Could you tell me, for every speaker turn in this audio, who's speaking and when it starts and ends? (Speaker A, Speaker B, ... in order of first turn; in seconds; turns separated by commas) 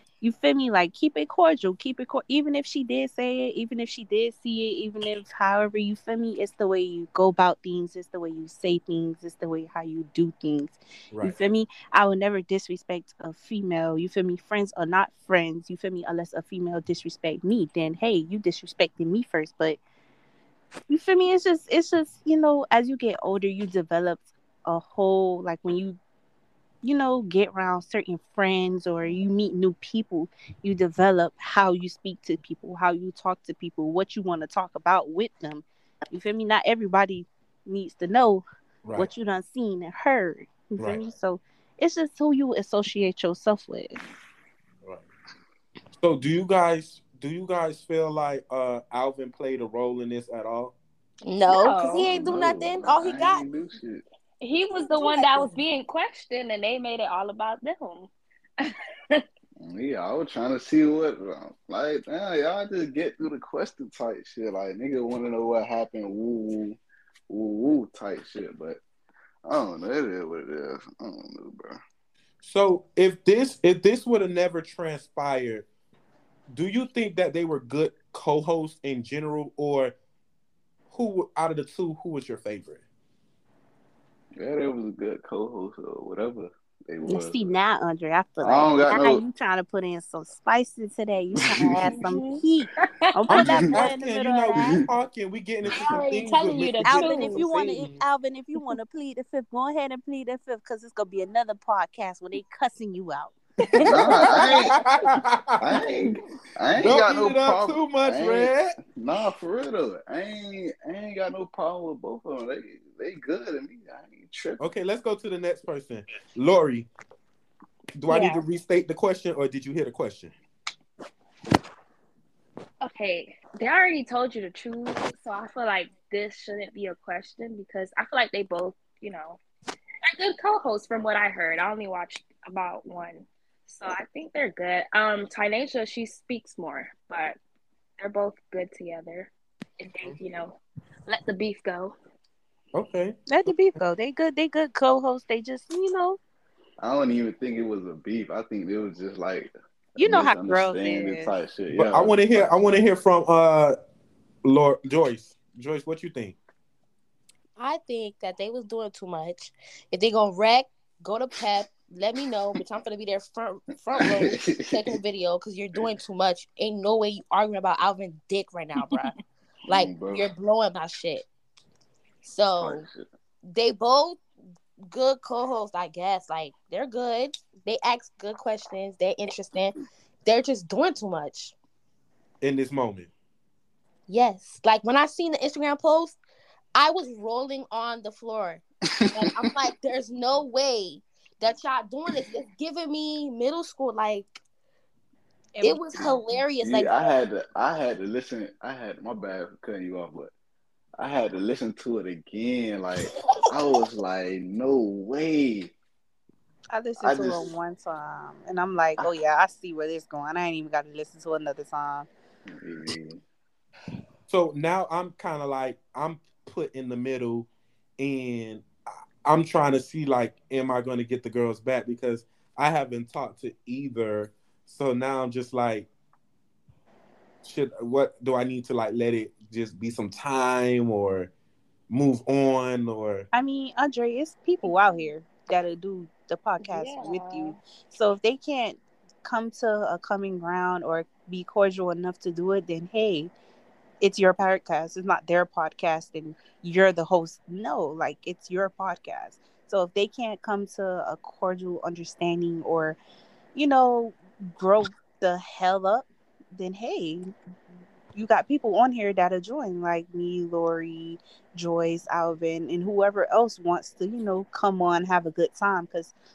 Speaker A: 0.2-19.8, Speaker A: 20.9-26.0, Speaker A: 26.8-38.4, Speaker B: 38.9-39.1, Speaker A: 39.0-44.0, Speaker B: 40.8-41.0, Speaker B: 46.0-50.8, Speaker C: 51.2-53.5, Speaker D: 51.5-52.1, Speaker E: 52.0-54.0, Speaker D: 54.4-59.2, Speaker C: 54.9-55.5, Speaker E: 59.6-68.8, Speaker E: 69.5-71.8, Speaker B: 72.4-75.7, Speaker B: 76.5-80.0, Speaker B: 80.9-82.8, Speaker E: 84.4-87.5, Speaker A: 87.1-94.8, Speaker E: 88.4-89.2, Speaker E: 91.5-92.0, Speaker D: 91.8-92.4, Speaker D: 93.0-93.5, Speaker B: 93.3-98.0, Speaker E: 93.4-93.8, Speaker E: 95.7-96.0, Speaker D: 95.7-97.5, Speaker A: 96.8-104.7, Speaker B: 103.7-105.6, Speaker E: 103.9-104.8, Speaker E: 105.6-114.6, Speaker B: 106.8-108.8, Speaker B: 114.6-116.9, Speaker B: 118.0-120.3, Speaker D: 118.1-118.4, Speaker D: 122.8-129.4, Speaker D: 130.1-137.4, Speaker D: 138.0-141.9, Speaker B: 142.7-143.5, Speaker A: 143.3-146.2, Speaker E: 146.8-152.4, Speaker A: 150.0-151.3, Speaker B: 151.7-153.8, Speaker B: 154.4-156.4, Speaker C: 157.6-169.1, Speaker E: 164.0-164.9, Speaker D: 168.8-169.1, Speaker E: 169.7-170.3, Speaker C: 169.7-171.3, Speaker C: 172.2-172.8, Speaker E: 172.6-173.1, Speaker C: 173.5-174.2, Speaker C: 174.8-181.6, Speaker B: 182.4-183.1, Speaker C: 184.1-186.2, Speaker C: 186.7-194.4, Speaker A: 195.6-196.2, Speaker C: 195.6-197.1, Speaker E: 196.6-200.3, Speaker E: 201.0-205.7, Speaker A: 206.7-212.1, Speaker E: 207.0-207.5, Speaker E: 212.5-213.2, Speaker B: 214.3-217.5, Speaker B: 218.0-218.7, Speaker B: 219.2-225.9, Speaker B: 227.4-231.3, Speaker B: 231.9-233.3, Speaker A: 233.3-243.3, Speaker D: 234.7-235.1, Speaker D: 236.6-237.6, Speaker A: 244.0-253.0, Speaker A: 253.5-257.3, Speaker A: 258.1-266.1